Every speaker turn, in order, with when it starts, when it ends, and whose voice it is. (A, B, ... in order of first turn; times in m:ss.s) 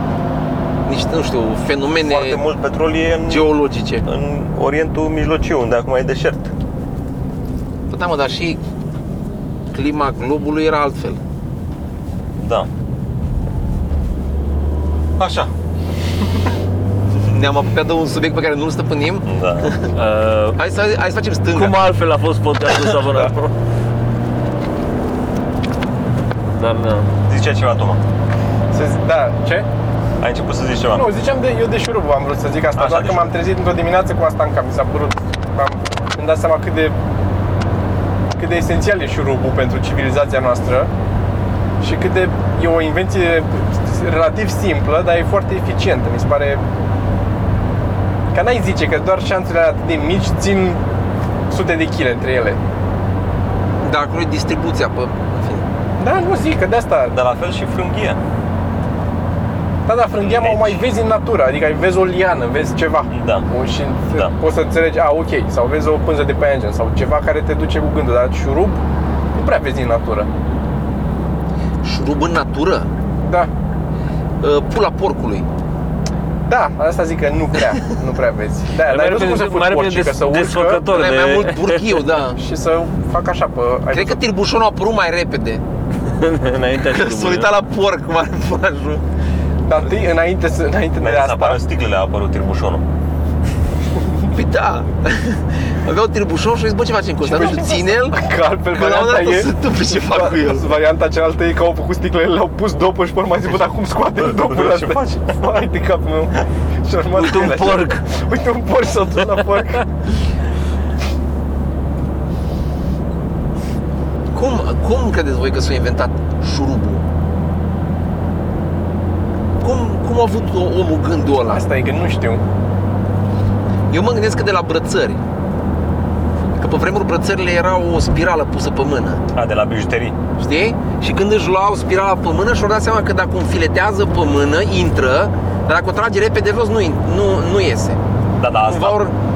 0:00.8-0:02.4 A
0:02.0-0:06.5 B
0:03.3-0:04.0 A
0:07.9-0:08.6 A
0:09.7-0:11.2 A
0:12.4-0:12.7 B
0:15.2-0:15.5 B
0:17.2-0:19.9 A
0:19.2-0:19.7 B
0:19.9-0:20.6 C
0:20.5-0:21.8 A
0:21.5-0:23.5 C
0:26.5-0:27.1 C
0:27.3-0:28.0 B
0:28.7-0:29.6 D
0:30.2-0:31.1 B
0:30.9-0:37.0 D
0:32.8-0:33.4 B
0:38.3-0:40.9 D
0:41.8-0:46.6 D
0:48.3-0:50.8 D
0:51.5-0:52.6 D
0:53.8-0:55.6 A
0:56.0-0:57.2 D
0:57.1-0:58.2 B
0:59.9-1:08.8 D
1:00.2-1:00.8 B
1:03.1-1:03.4 B
1:09.3-1:10.3 D
1:11.8-1:12.9 A
1:13.2-1:13.5 D
1:14.4-1:15.4 A
1:16.4-1:20.8 D
1:18.8-1:22.0 C
1:20.9-1:22.4 A
1:22.4-1:24.2 D
1:23.9-1:25.6 A
1:26.0-1:27.5 C
1:26.8-1:29.0 A
1:29.6-1:31.6 D
1:31.0-1:32.8 B
1:34.3-1:38.2 A
1:37.2-1:50.0 D
1:38.7-1:40.8 A
1:44.4-1:45.0 B
1:47.1-1:48.0 C
1:54.3-1:57.0 A
1:59.6-2:01.6 A
2:01.5-2:02.4 D
2:03.9-2:05.2 A
2:06.5-2:09.2 A
2:09.3-2:10.2 B
2:10.4-2:18.0 A
2:18.4-2:19.0 B
2:18.7-2:19.1 A